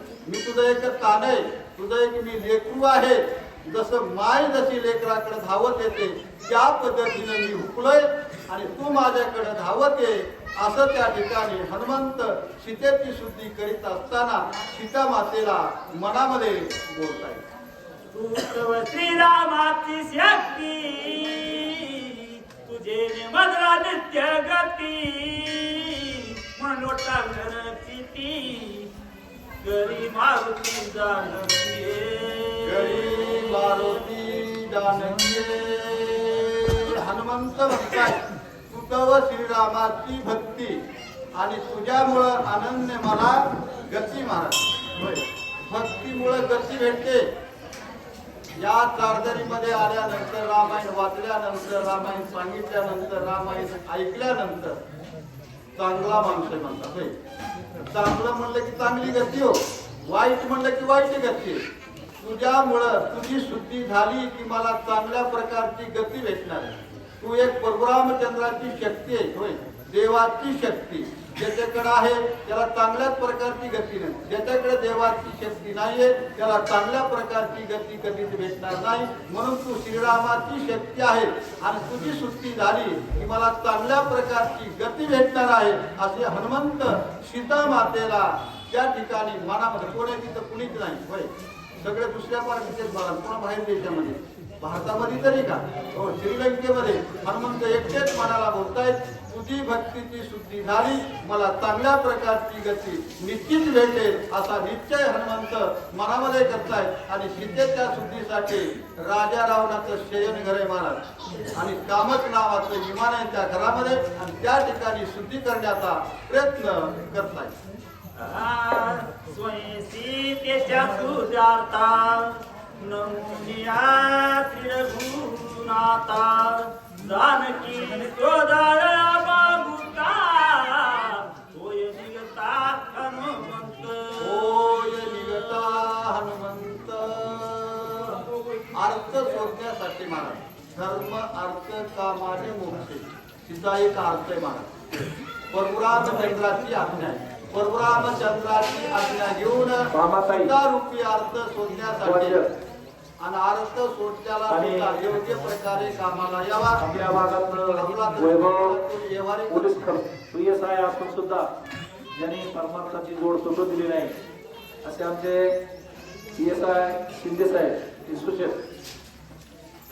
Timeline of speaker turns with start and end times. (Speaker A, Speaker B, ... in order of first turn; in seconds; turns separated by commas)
Speaker A: 0.2-17.4, Speaker B: 18.1-28.9, Speaker B: 29.6-34.0, Speaker A: 32.6-40.8, Speaker A: 41.3-47.2, Speaker A: 48.6-54.8, Speaker A: 55.8-57.1, Speaker A: 57.9-61.6, Speaker A: 62.2-91.3, Speaker A: 91.8-111.0, Speaker A: 111.6-117.5, Speaker B: 118.2-135.8, Speaker A: 134.2-138.2, Speaker A: 138.7-152.4, Speaker C: 149.9-150.5, Speaker C: 152.0-152.5, Speaker A: 153.2-156.9, Speaker C: 154.5-155.0, Speaker C: 156.8-158.8, Speaker A: 157.4-159.8, Speaker C: 159.5-161.5, Speaker C: 162.1-164.2, Speaker C: 164.8-165.6, Speaker C: 166.3-168.6